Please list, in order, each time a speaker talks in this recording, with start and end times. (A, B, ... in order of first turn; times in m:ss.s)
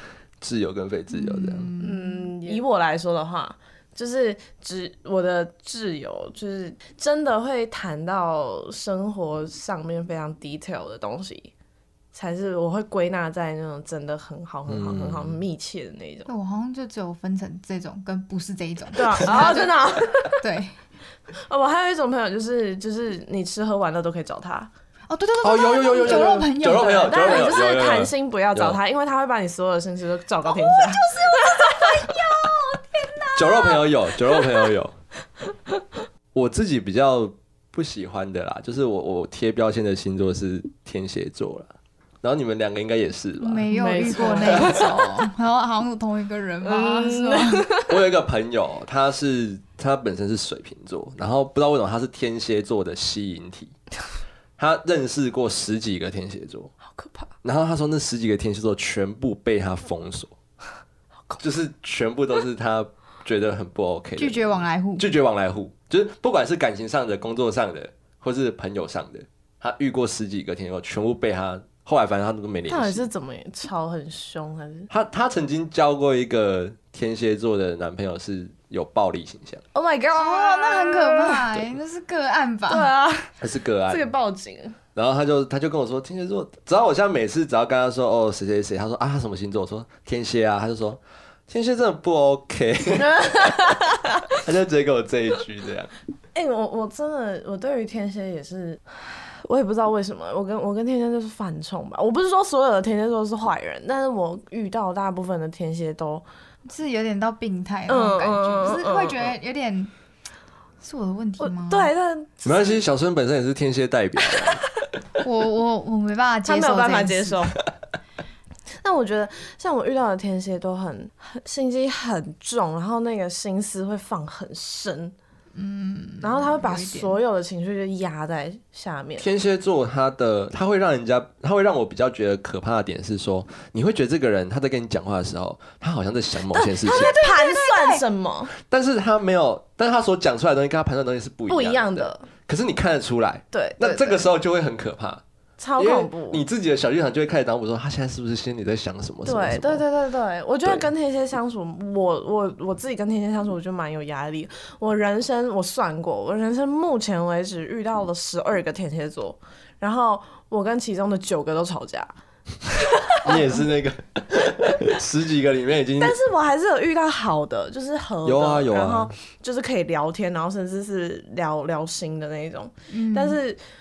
0:00.4-0:01.7 A
0:01.1-0:02.6 B
0:01.8-0:11.5 C
0:12.1-0:16.3 C
0:14.7-0:15.4 A
0:16.3-0:19.8 B
0:18.9-0:20.4 C
0:20.4-0:20.7 B
0:21.5-0:24.7 C
0:25.1-0:27.6 B
0:25.4-0:28.8 A
0:26.0-0:32.1 C
0:30.5-0:33.8 B
0:33.4-0:34.9 A
0:36.3-0:43.7 A
0:43.4-0:47.8 B
0:43.7-0:45.0 C
0:44.2-0:44.9 A
0:46.6-0:48.0 C
0:47.9-0:53.7 A
0:54.6-0:56.7 A
0:56.8-0:57.3 C
0:57.4-1:00.3 A
1:01.4-1:13.0 A
1:04.2-1:05.1 B
1:12.7-1:14.9 C
1:14.9-1:19.6 A
1:19.7-1:21.6 C
1:20.1-1:22.9 B
1:22.7-1:24.8 C
1:23.4-1:24.1 A
1:25.0-1:33.7 A
1:33.0-1:34.2 C
1:34.3-1:35.9 A
1:36.3-1:46.2 C
1:46.7-1:49.9 B
1:47.9-1:49.3 C
1:50.8-1:51.9 B
1:51.4-1:52.8 C
1:52.4-1:54.6 A
1:54.3-1:54.6 C
1:55.2-1:57.4 B
1:56.4-1:57.6 C
1:58.8-2:05.1 C
2:05.5-2:07.2 B
2:06.2-2:09.3 C
2:09.2-2:17.1 A
2:16.5-2:18.5 C
2:16.8-2:18.0 B
2:18.5-2:25.2 A
2:21.5-2:22.2 C
2:23.5-2:24.2 C
2:25.6-2:26.4 C
2:25.8-2:29.8 A
2:29.2-2:42.1 C
2:30.6-2:30.9 A
2:42.7-2:43.2 C
2:43.2-2:46.2 A
2:46.0-2:53.6 C
2:48.2-2:49.1 A
2:52.9-2:53.4 B